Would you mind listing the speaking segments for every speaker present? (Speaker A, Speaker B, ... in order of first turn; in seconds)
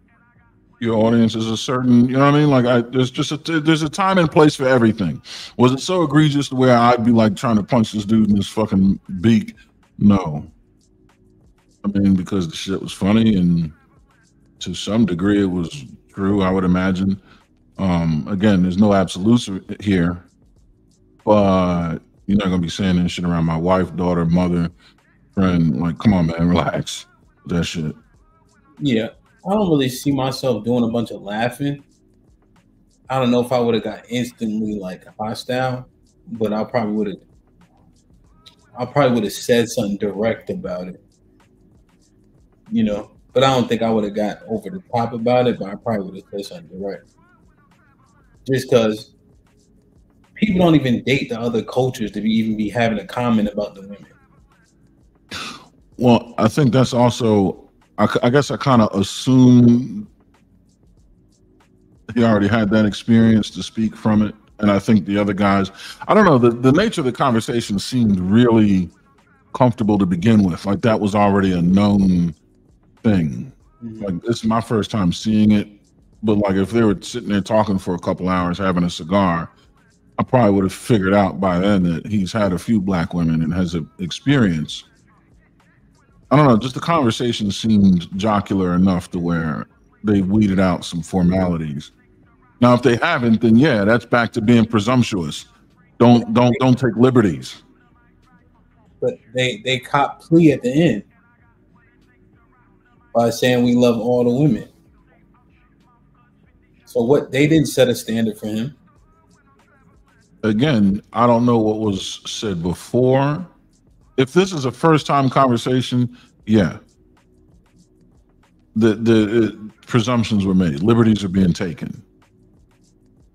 Speaker A: 0.8-10.5, 11.8-13.8, 14.6-17.2, 17.8-20.3, 21.2-24.7, 25.4-28.0, 55.3-60.1, 62.1-68.9, 69.5-72.4, 73.0-79.5, 80.2-84.9, 86.3-91.9, 92.6-95.5, 96.0-97.6, 110.4-113.5, 114.2-116.8, 118.8-122.0
Speaker B: 28.8-31.9, 33.1-37.2, 38.8-41.0, 42.7-47.0, 48.5-49.1, 50.4-54.1, 73.8-74.1, 99.0-101.1, 103.1-104.7, 106.9-108.8